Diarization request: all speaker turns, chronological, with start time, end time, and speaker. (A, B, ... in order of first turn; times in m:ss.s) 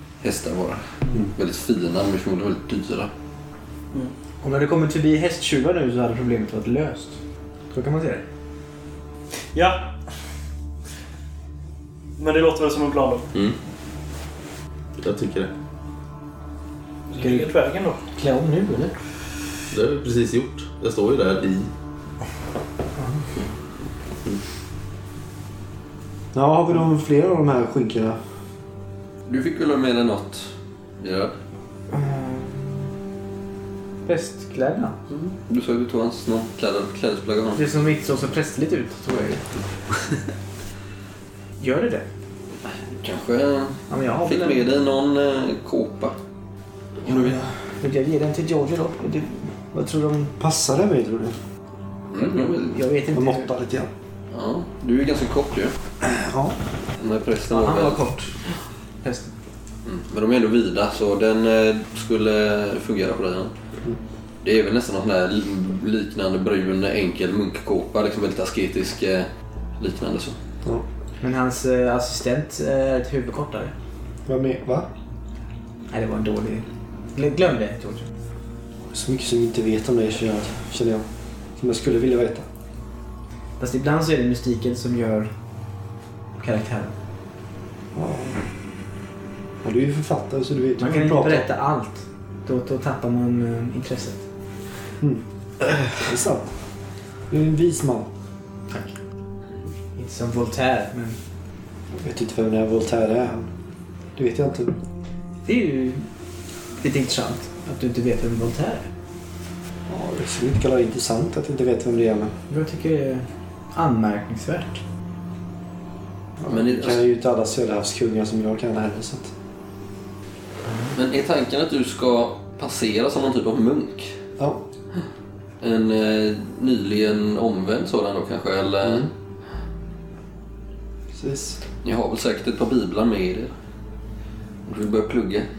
0:00.2-0:03.1 A
0:04.4-0:07.2 B
0:07.7-0:08.2 B
0:09.5-0:09.9 C
0:12.2-0:13.3 C
0:15.0-0:15.5 D
0:17.1-0:18.0 C
0:17.2-0:17.5 B
0:18.2-0:18.9 B
0:19.7-0:21.7 D
0:23.0-0:23.2 B
0:26.3-0:28.2 E
0:29.3-0:31.4 A
0:31.9-0:32.9 B
0:34.1-0:35.0 B
0:35.1-0:37.7 A
0:37.6-0:39.5 B
0:41.6-0:42.0 B
0:43.0-0:46.2 A
0:43.9-0:44.6 B
0:47.0-0:47.4 A
0:47.1-0:50.3 B
0:50.4-0:51.4 E
0:52.1-0:52.8 A
0:52.2-0:53.5 B
0:53.1-0:53.9 E
0:54.3-0:55.8 A
0:56.0-0:56.6 E
0:57.0-0:58.0 A
0:57.5-0:58.5 B
0:59.0-0:59.3 B
0:59.8-1:03.5 A
1:04.4-1:09.3 A
1:09.8-1:10.4 A
1:11.2-1:13.7 B
1:14.3-1:14.9 E
1:15.9-1:18.1 B
1:18.9-1:21.1 E
1:21.6-1:22.5 E
1:23.6-1:25.3 B
1:26.4-1:27.0 B
1:27.9-1:28.4 E
1:29.6-1:31.5 E
1:30.8-1:34.2 B
1:35.8-1:36.5 E
1:37.3-1:38.1 E
1:40.0-1:41.2 B
1:41.9-1:43.5 E
1:44.2-1:44.8 E
1:45.4-1:46.1 B
1:46.8-1:48.9 B
1:49.9-1:52.3 E
1:52.5-1:54.8 B
1:56.4-1:59.3 E
1:56.5-1:57.0 A
2:00.9-2:04.2 A
2:05.6-2:09.1 A
2:08.8-2:09.1 E
2:11.1-2:11.6 E
2:11.8-2:13.5 A
2:14.7-2:15.5 A